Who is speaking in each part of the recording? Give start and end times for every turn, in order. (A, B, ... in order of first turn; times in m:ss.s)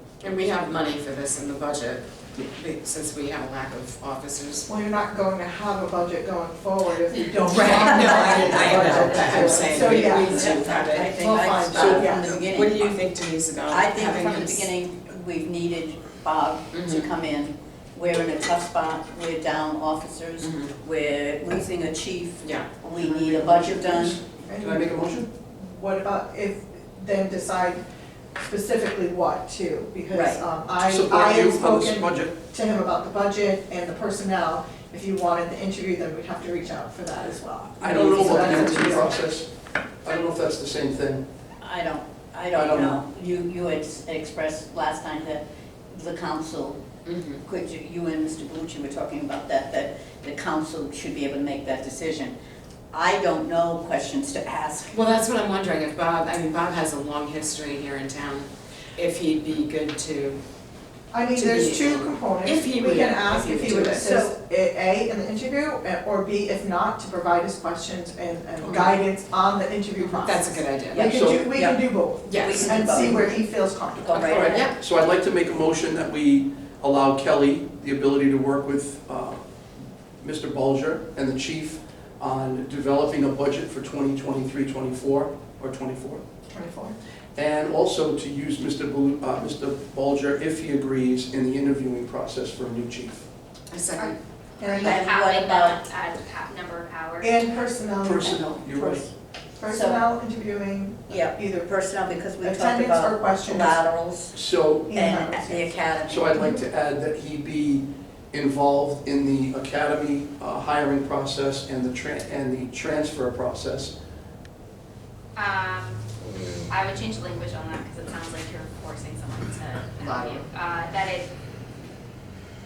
0:00.2-0:04.7 A
0:04.7-0:12.3 B
0:07.4-0:11.2 A
0:07.7-0:13.0 C
0:11.8-0:12.1 D
0:12.2-0:14.7 A
0:13.7-0:24.2 C
0:16.7-0:17.1 A
0:20.4-0:20.7 A
0:22.4-0:23.5 A
0:23.5-0:25.3 D
0:24.5-0:27.8 B
0:28.4-0:39.3 B
0:30.1-0:30.4 C
0:30.8-0:32.3 D
0:37.8-0:39.5 D
0:40.0-0:41.3 D
0:41.6-0:46.8 C
0:42.5-0:43.0 D
0:47.0-0:47.4 A
0:47.4-0:52.3 C
0:52.9-0:54.9 C
0:54.9-1:00.4 A
1:01.1-1:14.5 B
1:01.3-1:04.1 A
1:03.9-1:04.3 C
1:08.7-1:09.0 A
1:10.0-1:11.1 A
1:10.9-1:13.4 C
1:11.1-1:11.4 D
1:12.3-1:13.2 A
1:14.0-1:14.7 C
1:14.1-1:14.8 A
1:14.3-1:19.4 D
1:20.2-1:26.2 D
1:26.5-1:27.0 B
1:27.4-1:33.3 D
1:33.7-1:34.2 A
1:34.0-1:35.0 B
1:34.7-1:37.5 E
1:34.8-1:35.8 C
1:37.2-1:39.0 B
1:38.0-1:39.0 D
1:38.3-1:39.1 C
1:39.6-1:41.8 B
1:39.7-1:40.0 C
1:41.1-1:44.3 C
1:42.4-1:43.8 B
1:44.3-1:44.9 D
1:44.9-1:45.7 B
1:44.9-1:46.5 C
1:46.1-1:54.0 D
1:55.4-1:56.0 E
1:56.6-2:01.3 E
2:00.0-2:00.4 A